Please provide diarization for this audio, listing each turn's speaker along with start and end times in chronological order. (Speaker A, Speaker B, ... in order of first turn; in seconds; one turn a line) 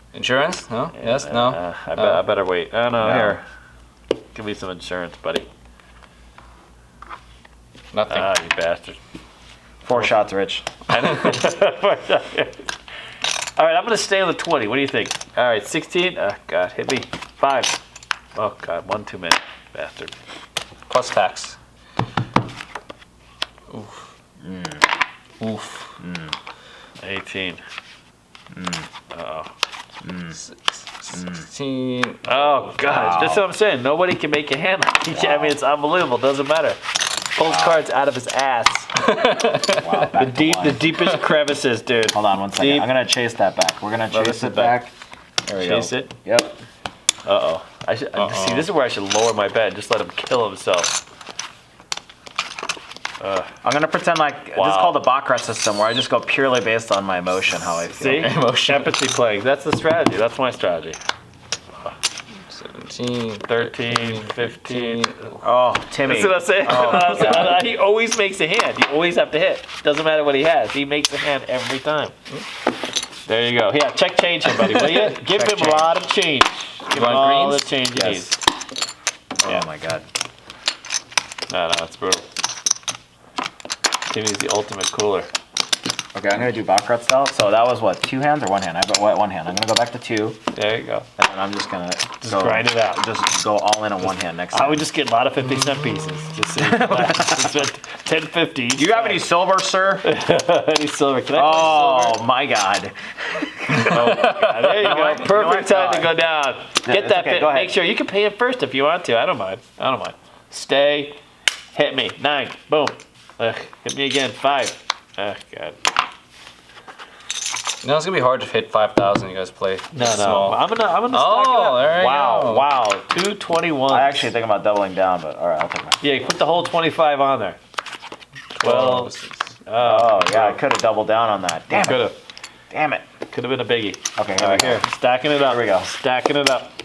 Speaker A: 0.1-2.2
Speaker B: 0.9-3.4
Speaker C: 3.0-3.4
Speaker B: 4.3-5.5
Speaker A: 7.9-8.3
Speaker B: 8.1-9.0
Speaker C: 9.8-10.7
Speaker B: 10.9-12.7
Speaker B: 13.6-17.8
Speaker B: 18.3-20.1
Speaker A: 20.9-21.6
Speaker A: 23.7-24.0
Speaker C: 24.4-24.8
Speaker A: 25.4-25.9
Speaker C: 26.0-26.3
Speaker B: 27.0-27.6
Speaker C: 28.5-28.9
Speaker B: 29.1-29.5
Speaker C: 30.0-30.4
Speaker A: 30.3-32.7
Speaker C: 31.1-31.4
Speaker B: 32.2-36.8
Speaker C: 32.9-33.4
Speaker C: 35.1-35.6
Speaker B: 37.3-39.0
Speaker C: 37.5-37.8
Speaker A: 39.0-40.1
Speaker C: 39.6-40.9
Speaker B: 40.2-42.9
Speaker C: 42.1-44.9
Speaker B: 44.1-44.8
Speaker C: 45.5-46.5
Speaker B: 45.5-46.1
Speaker B: 47.2-51.0
Speaker A: 48.1-48.7
Speaker B: 53.2-53.5
Speaker C: 53.6-58.3
Speaker B: 54.5-55.0
Speaker B: 57.9-61.0
Speaker A: 58.0-59.0
Speaker A: 62.4-65.3
Speaker B: 63.4-65.1
Speaker C: 65.4-67.6
Speaker B: 66.0-72.1
Speaker B: 73.2-78.4
Speaker C: 74.8-76.0
Speaker A: 76.9-77.7
Speaker C: 77.9-78.3
Speaker C: 79.4-80.0
Speaker B: 81.5-82.3
Speaker B: 84.1-85.3
Speaker C: 86.1-90.4
Speaker B: 90.5-91.1
Speaker C: 91.2-94.8
Speaker B: 92.2-93.0
Speaker B: 94.5-99.3
Speaker C: 96.6-97.5
Speaker C: 98.8-100.1
Speaker B: 100.0-102.1
Speaker C: 101.3-106.1
Speaker A: 103.7-105.0
Speaker B: 103.7-111.2
Speaker C: 106.8-107.8
Speaker B: 111.7-115.8
Speaker A: 117.8-122.7
Speaker B: 119.9-124.3
Speaker C: 123.9-126.0
Speaker B: 126.0-127.6
Speaker B: 128.6-129.1
Speaker A: 128.6-129.5
Speaker B: 129.6-130.6
Speaker C: 129.8-132.1
Speaker B: 131.8-132.2
Speaker C: 132.7-133.0
Speaker B: 133.3-136.7
Speaker C: 134.2-135.9